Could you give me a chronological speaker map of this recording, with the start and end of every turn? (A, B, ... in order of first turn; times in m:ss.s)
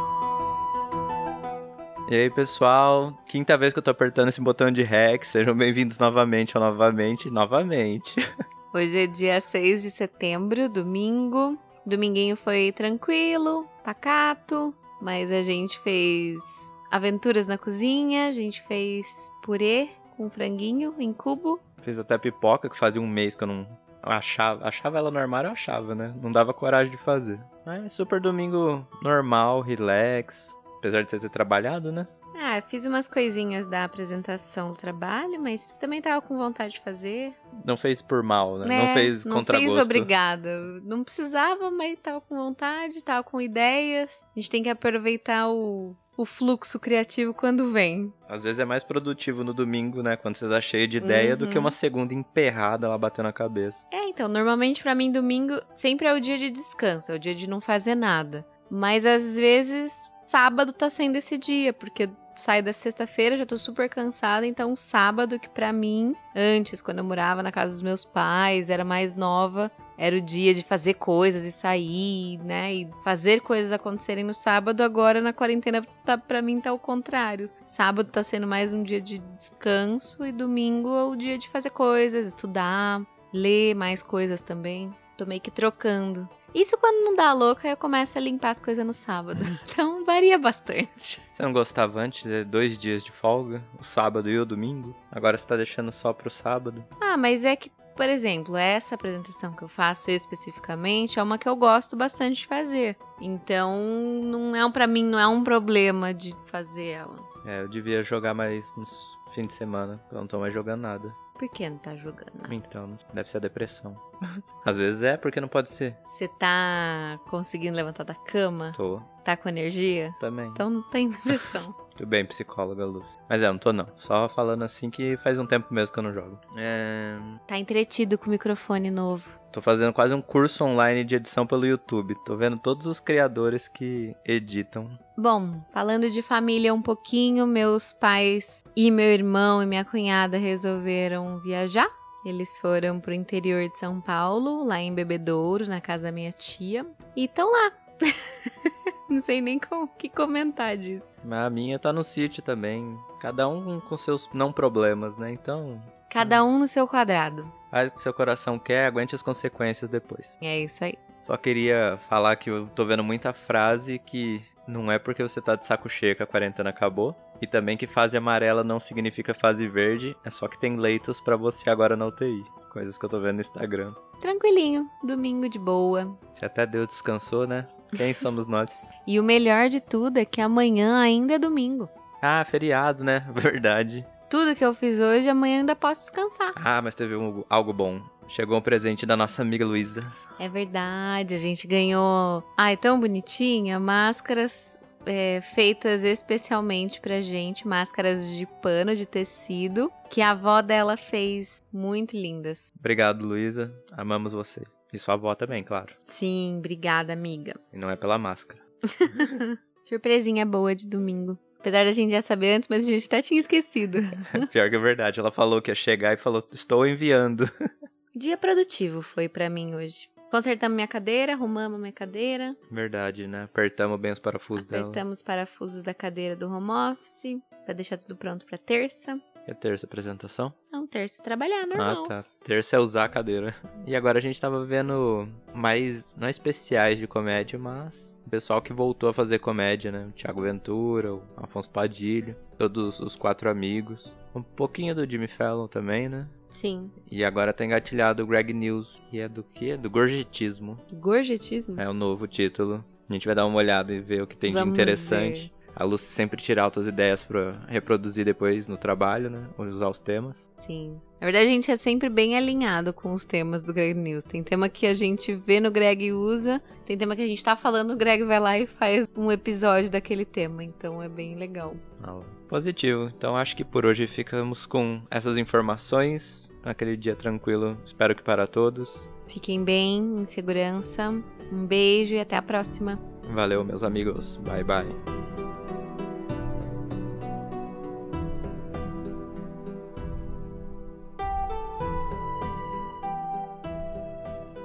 0:02.1-0:08.2 A
0:08.7-0:21.6 B
0:21.8-0:32.1 A
0:32.3-0:37.4 B
0:37.6-0:40.1 A
0:38.6-0:48.1 B
0:48.3-0:53.8 A
0:51.0-0:51.8 B
0:53.9-1:31.2 B
1:31.4-1:36.9 A
1:37.0-1:47.3 B
1:47.4-1:51.2 A
1:51.4-1:52.6 B
1:52.5-1:54.0 A
1:54.6-1:56.0 A
1:56.1-2:01.7 B
1:58.7-1:59.1 A
2:00.2-2:00.6 A
2:01.3-2:07.4 A
2:07.5-2:09.3 B
2:09.5-2:15.0 A
2:15.2-2:31.1 B
2:31.2-2:36.4 A
2:36.1-2:37.5 B
2:37.7-2:40.3 A
2:40.4-2:41.0 B
2:41.2-2:54.0 A
2:54.2-2:56.2 B
2:56.4-2:58.9 A
2:59.0-3:01.9 B
3:02.2-3:04.1 A
3:04.3-3:06.6 B
3:06.6-3:10.1 A
3:10.4-3:22.6 B
3:22.8-3:25.9 A
3:26.1-3:27.6 B
3:27.7-3:28.6 A
3:28.9-3:34.4 B
3:34.3-3:37.5 A
3:38.1-3:42.6 B
3:42.7-3:45.0 A
3:44.6-3:49.2 B
3:49.4-3:50.5 A
3:50.7-3:52.1 B
3:51.7-4:06.3 A
4:06.5-4:06.9 B
4:07.0-4:10.8 A
4:10.9-4:11.8 B
4:11.8-4:20.4 A
4:14.5-4:15.5 B
4:20.6-4:31.8 B
4:32.0-4:39.1 A
4:39.3-4:43.0 B
4:43.2-4:45.0 A